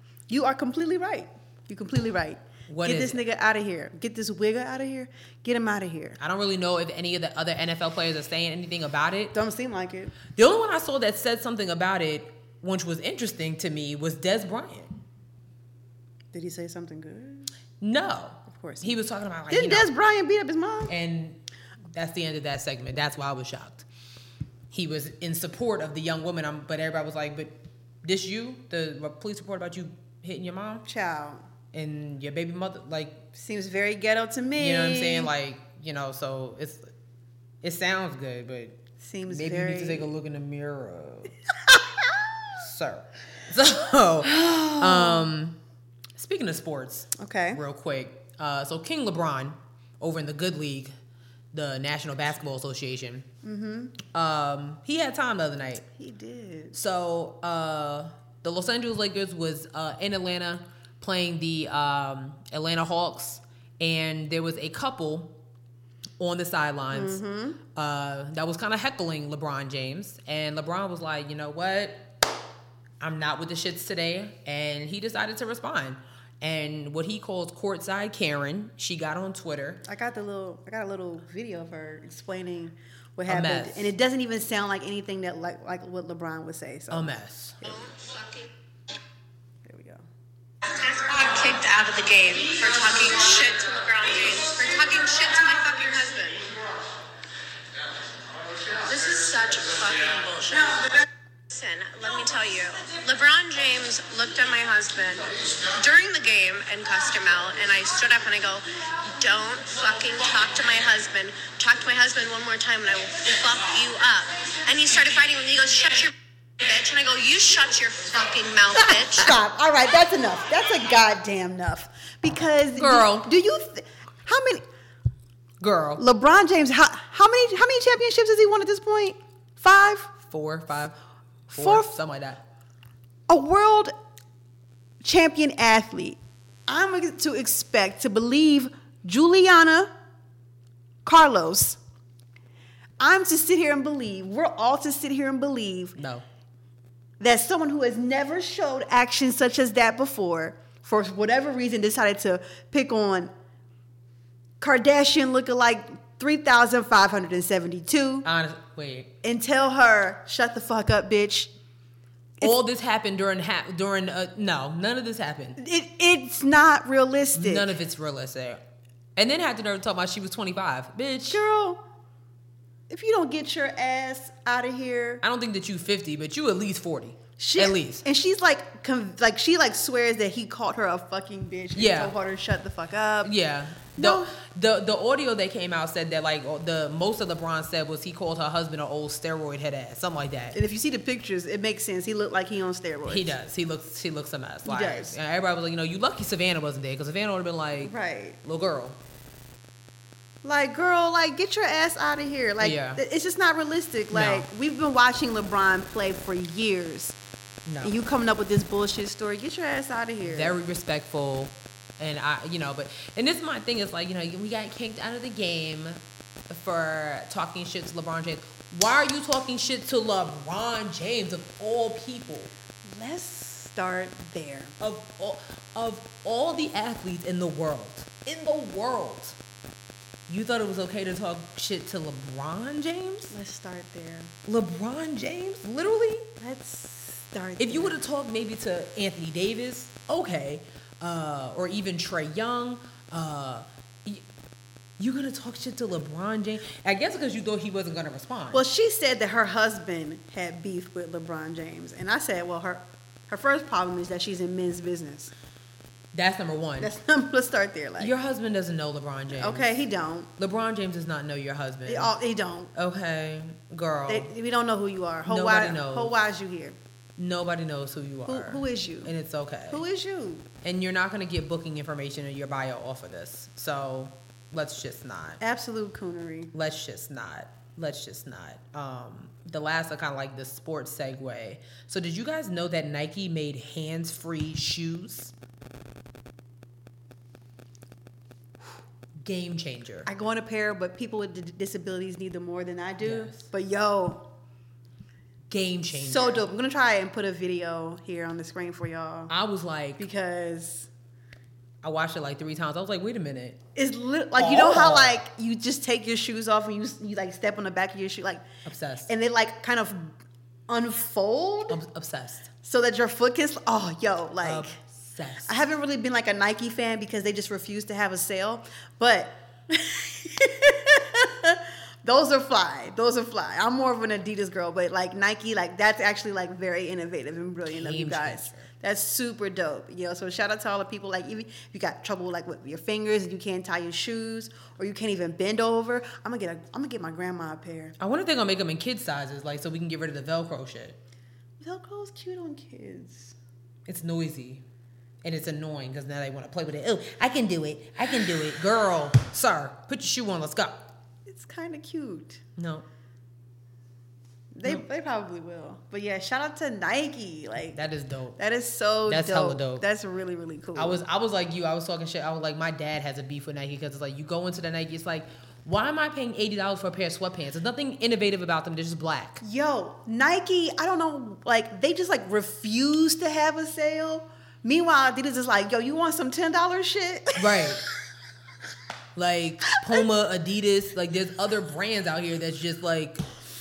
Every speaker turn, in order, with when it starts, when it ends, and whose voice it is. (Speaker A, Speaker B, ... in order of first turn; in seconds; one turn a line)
Speaker A: 0.3-6.2
Speaker B: 2.7-3.2
Speaker B: 6.2-9.3
Speaker A: 9.3-10.2
Speaker B: 10.3-15.0
Speaker A: 16.3-17.5
Speaker B: 17.8-19.9
Speaker A: 18.5-18.9
Speaker A: 19.5-20.9
Speaker B: 20.9-21.4
Speaker B: 21.9-23.9
Speaker B: 24.7-30.9
Speaker A: 30.9-31.4
Speaker B: 31.7-33.2
Speaker A: 33.3-35.3
Speaker B: 34.6-36.9
Speaker B: 37.6-41.4
Speaker A: 39.0-40.1
Speaker B: 42.5-45.6
Speaker A: 44.2-45.3
Speaker B: 46.1-50.9
Speaker A: 47.2-47.6
Speaker B: 51.5-53.3
Speaker A: 53.4-54.0
Speaker B: 54.0-55.9
Speaker A: 56.0-56.8
Speaker B: 56.7-65.3
Speaker B: 66.2-72.1
Speaker A: 66.9-67.6
Speaker B: 73.0-79.8
Speaker A: 79.8-87.2
Speaker B: 83.3-83.9
Speaker B: 86.9-87.8
Speaker C: 87.8-88.4
Speaker A: 89.7-90.1
Speaker C: 90.7-96.5
Speaker C: 98.8-100.8
Speaker C: 101.5-119.3
Speaker A: 118.8-124.6
Speaker B: 122.8-123.3
Speaker B: 125.6-126.0
Speaker A: 126.0-130.1
Speaker B: 130.2-131.0
Speaker B: 131.5-132.4
Speaker A: 131.5-131.9
Speaker A: 133.3-133.9
Speaker A: 135.0-139.9
Speaker A: 141.1-141.8
Speaker A: 143.0-146.0
Speaker B: 146.0-146.2
Speaker A: 147.2-153.3
Speaker A: 154.6-158.3
Speaker B: 158.2-159.1
Speaker A: 159.2-161.5
Speaker B: 162.4-165.6
Speaker A: 165.6-167.7
Speaker B: 167.3-168.6
Speaker B: 169.2-171.4
Speaker A: 171.3-171.8
Speaker A: 172.9-175.2
Speaker B: 175.2-178.0
Speaker A: 177.4-183.3
Speaker B: 181.8-182.2
Speaker B: 183.2-190.6
Speaker A: 183.9-184.3
Speaker A: 190.5-193.3
Speaker B: 193.1-199.0
Speaker A: 194.7-195.2
Speaker A: 197.8-198.4
Speaker A: 200.4-207.2
Speaker B: 202.6-203.0
Speaker B: 204.1-204.5
Speaker B: 207.7-207.9
Speaker A: 207.8-210.6
Speaker B: 210.2-222.5
Speaker A: 222.9-224.8
Speaker B: 224.8-229.4
Speaker B: 230.3-233.3
Speaker A: 233.3-234.3
Speaker B: 234.4-236.3
Speaker A: 236.4-238.0
Speaker B: 237.6-244.2
Speaker B: 245.0-248.6
Speaker A: 248.5-255.3
Speaker B: 256.1-256.9
Speaker A: 256.8-258.1
Speaker B: 258.0-259.8
Speaker A: 259.3-260.3
Speaker B: 260.4-262.1
Speaker A: 261.9-262.7
Speaker B: 262.8-264.3
Speaker A: 264.1-266.8
Speaker B: 265.3-266.1
Speaker B: 267.2-269.8
Speaker A: 268.3-269.1
Speaker A: 269.7-270.5
Speaker B: 270.6-275.4
Speaker A: 275.4-276.5
Speaker B: 276.5-285.3
Speaker B: 289.2-290.1
Speaker A: 290.1-294.3
Speaker B: 293.0-293.5
Speaker B: 295.5-296.4
Speaker A: 295.9-299.3
Speaker B: 299.3-300.0
Speaker A: 300.0-300.9
Speaker B: 301.8-303.6
Speaker A: 303.8-308.4
Speaker B: 304.4-305.2
Speaker B: 308.6-309.1
Speaker A: 309.1-310.2
Speaker A: 310.7-311.8
Speaker B: 311.7-312.5
Speaker A: 312.6-314.8
Speaker B: 314.4-315.6
Speaker A: 315.5-337.9
Speaker B: 327.7-328.7
Speaker B: 338.0-341.0
Speaker A: 341.6-343.4
Speaker B: 343.9-344.6
Speaker B: 345.2-350.9
Speaker A: 351.3-352.4
Speaker B: 352.6-352.9
Speaker A: 354.5-357.8
Speaker B: 357.7-358.4
Speaker A: 358.4-361.0
Speaker B: 359.1-359.9
Speaker B: 360.8-369.4
Speaker A: 369.4-377.7
Speaker B: 377.4-377.8
Speaker B: 379.1-383.2